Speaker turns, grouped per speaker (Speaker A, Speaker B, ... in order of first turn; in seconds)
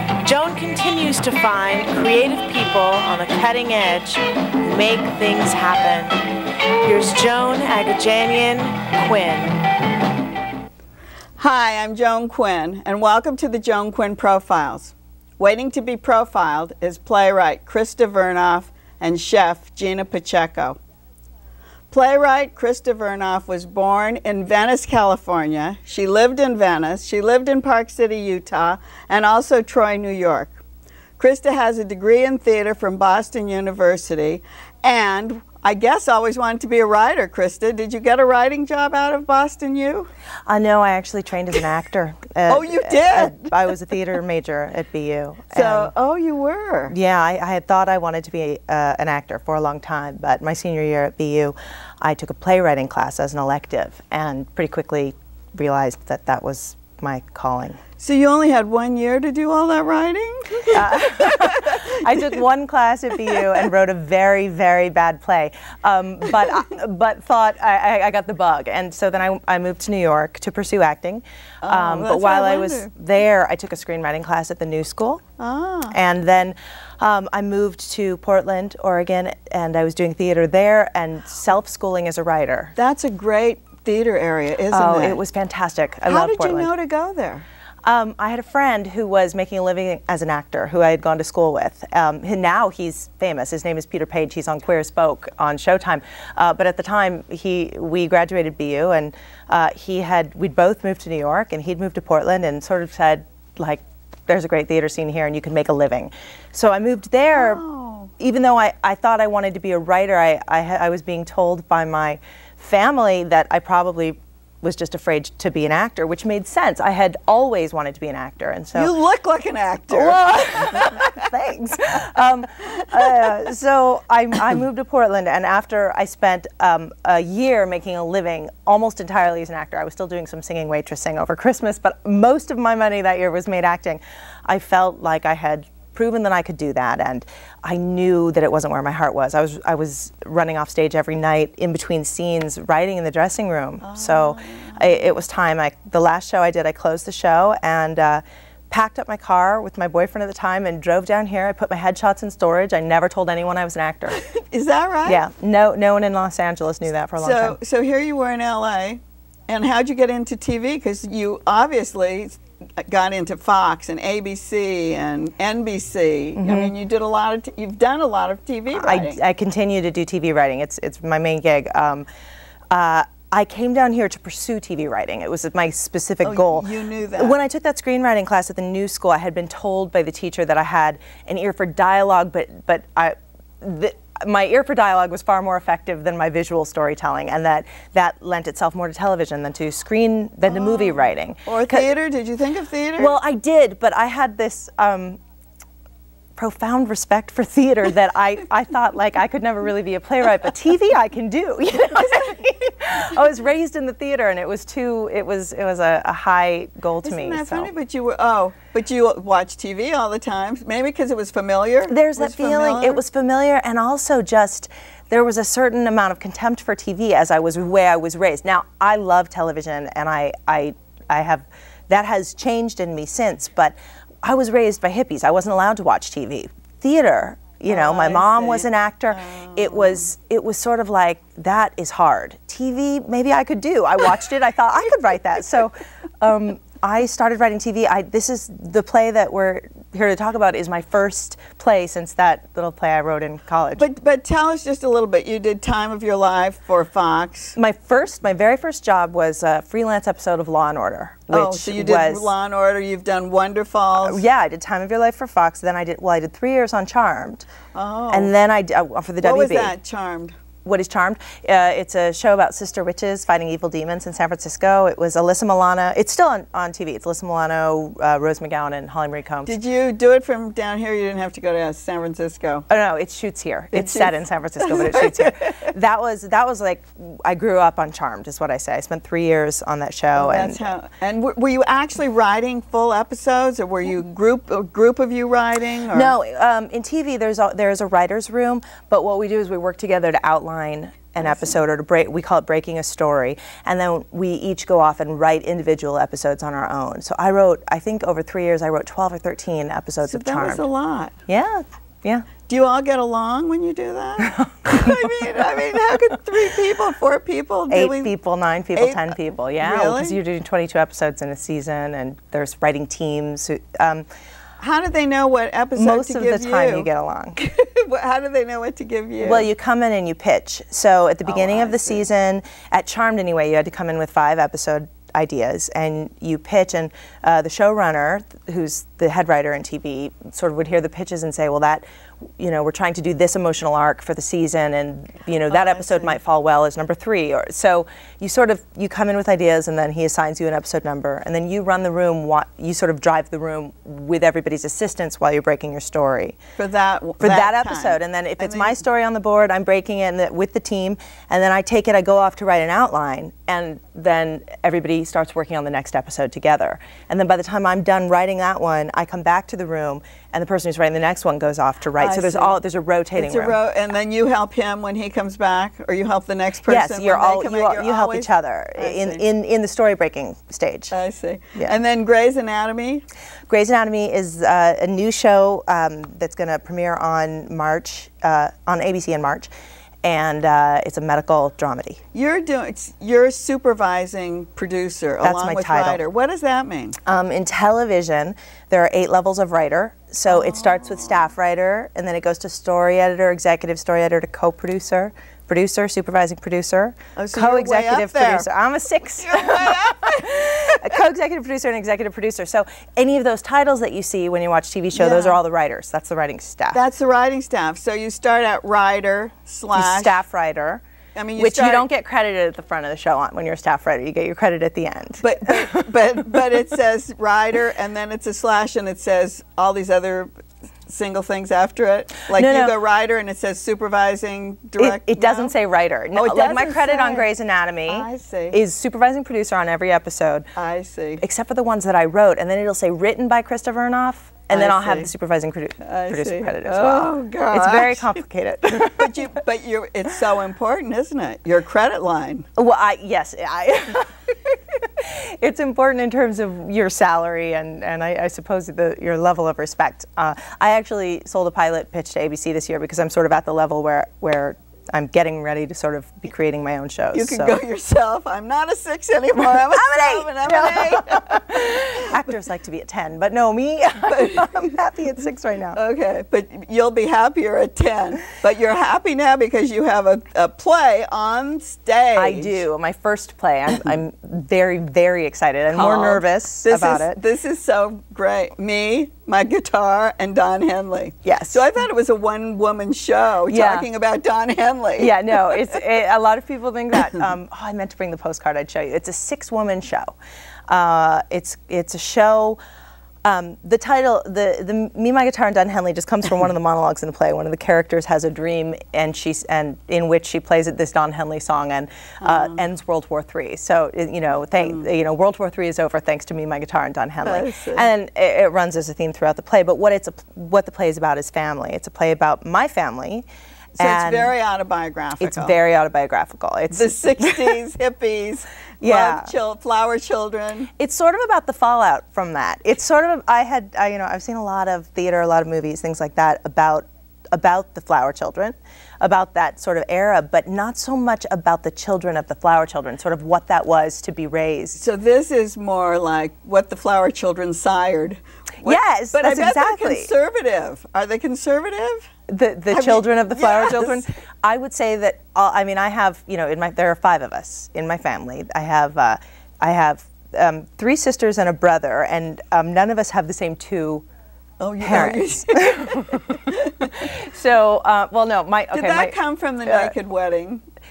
Speaker A: 0.2-6.2, 6.8-9.6
Speaker B: 11.4-20.8, 21.9-30.5, 31.2-40.1, 42.5-43.5, 45.5-46.9, 58.0-62.0, 71.6-72.9, 75.4-76.0, 82.8-85.2, 86.1-87.4, 107.3-108.1, 118.7-121.1, 143.8-145.0, 154.2-155.2, 157.2-169.2, 176.2-177.3, 190.5-193.1, 207.0-213.0, 227.7-230.0, 243.8-247.5, 251.3-254.2, 257.7-258.3, 259.2-260.4, 269.4-272.6, 273.7-275.6, 280.1-286.1, 291.2-291.5, 300.0-301.1, 302.5-308.1, 308.8-310.2, 314.6-319.5, 321.3-322.0, 335.5-336.2, 346.6-348.7, 362.0-362.5, 363.2-369.2, 370.9-373.0, 382.1-387.0, 390.3-391.2, 397.1-398.5, 399.2-400.9, 404.9-405.4, 406.7-410.2, 411.1-411.8, 415.2-420.3, 420.9-425.5, 426.1-427.3, 427.9-428.6, 430.6-431.2, 434.5-435.1, 435.8-438.2, 438.7-442.5, 457.1-462.1, 464.1-464.8, 465.7-472.6, 475.7-485.2, 502.2-502.6, 504.6-504.8, 507.2-507.9, 513.8-515.5, 516.7-520.7, 534.8-542.1, 542.7-544.1, 554.6-556.9, 558.7-560.6
Speaker C: 40.5-45.9, 46.9-57.8, 60.7-75.2, 75.9-82.7, 84.7-86.7, 87.8-107.6, 108.2-118.9, 119.9-154.2, 155.1-157.6, 166.4-166.7, 168.7-172.1, 172.7-191.9, 193.0-195.2, 196.3-207.7, 211.9-243.8, 247.6-252.3, 254.0-257.5, 258.1-259.7, 260.6-269.5, 272.7-280.6, 285.9-300.6, 301.3-302.3, 304.2-305.2, 307.7-314.1, 315.8-317.4, 319.2-331.8, 332.4-346.4, 347.2-363.6, 366.7-370.9, 373.5-379.5, 380.0-382.0, 385.2-386.0, 387.1-406.8, 409.7-410.8, 411.4-416.5, 422.3-422.7, 424.8-430.4, 431.2-439.2, 442.6-457.6, 459.7-465.8, 472.1-477.2, 481.2-481.7, 483.5-483.9, 485.0-490.1, 490.7-492.6, 493.2-513.3, 513.8-514.3, 515.2-517.5, 518.8-519.3, 520.8-534.8, 538.6-540.1, 542.3-554.0, 554.8-559.9